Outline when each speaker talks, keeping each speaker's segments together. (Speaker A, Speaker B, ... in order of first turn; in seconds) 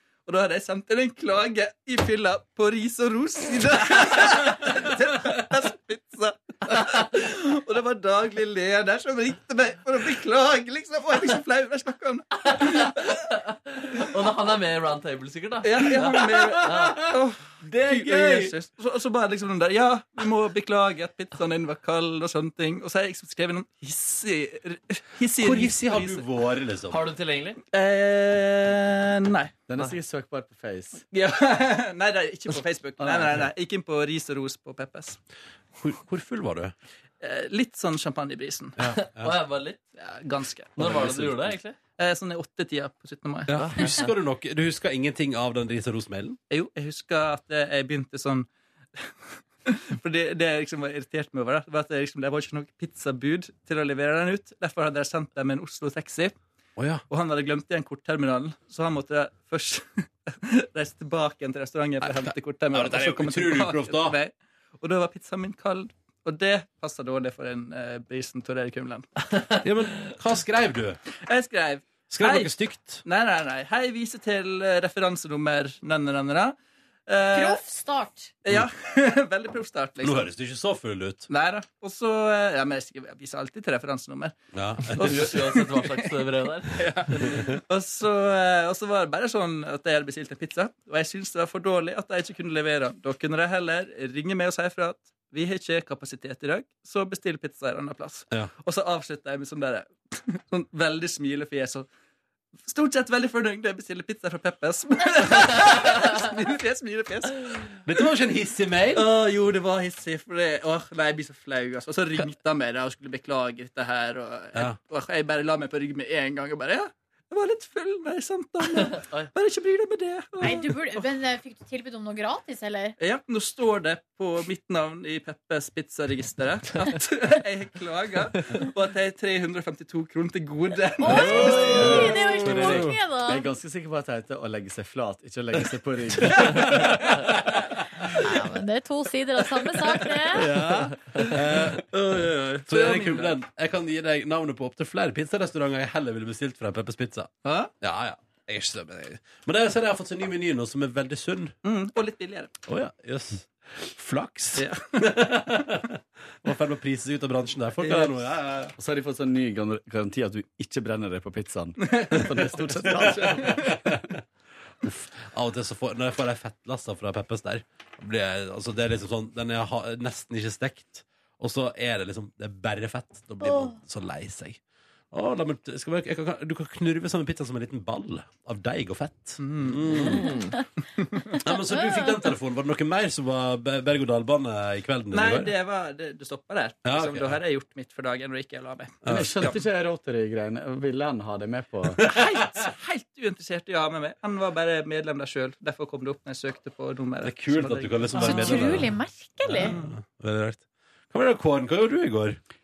Speaker A: 0.2-13.2, 15.6-26.2, 27.7-29.5, 31.1-35.2, 37.2-38.8, 40.0-40.9, 42.0-44.0, 46.5-49.1, 49.6-56.4, 57.1-69.0, 71.2-76.5, 77.1-77.6, 78.4-80.3, 81.3-84.4, 85.0-86.1, 86.7-101.9, 102.6-107.8, 108.9-121.0, 123.0-132.3, 141.9-143.3, 151.6-152.5, 154.6-154.9, 157.8-158.1, 161.8-162.3, 163.0-163.7, 179.4-180.4, 181.0-181.4, 185.1-189.6, 192.0-198.6, 199.6-199.9
Speaker B: 12.6-16.1, 16.6-17.0, 26.9-27.6, 39.0-39.8, 40.8-41.8, 43.6-43.9, 85.0-87.4, 180.1-180.5
Speaker C: 16.0-17.1, 17.7-18.5, 25.4-27.0, 35.8-36.7, 38.8-39.4, 40.8-41.5, 43.5-46.4, 56.8-57.0, 62.0-64.2, 69.6-71.0, 72.1-73.0, 80.0-81.3, 84.5-85.3, 87.2-87.6, 107.9-109.0, 131.1-132.9, 136.2-137.7, 140.3-151.5, 152.7-158.7, 162.9-164.2, 164.8-174.6, 175.1-180.3, 181.3-185.5, 186.8-187.4, 189.0-189.5, 197.2-198.9, 199.4-202.4
Speaker D: 29.7-31.0, 33.0-33.4, 131.8-137.2, 158.8-164.0, 189.1-192.0, 197.7-198.9
Speaker E: 77.3-78.3, 120.4-123.0, 131.0-133.4, 138.2-140.4, 173.4-173.7, 198.2-199.7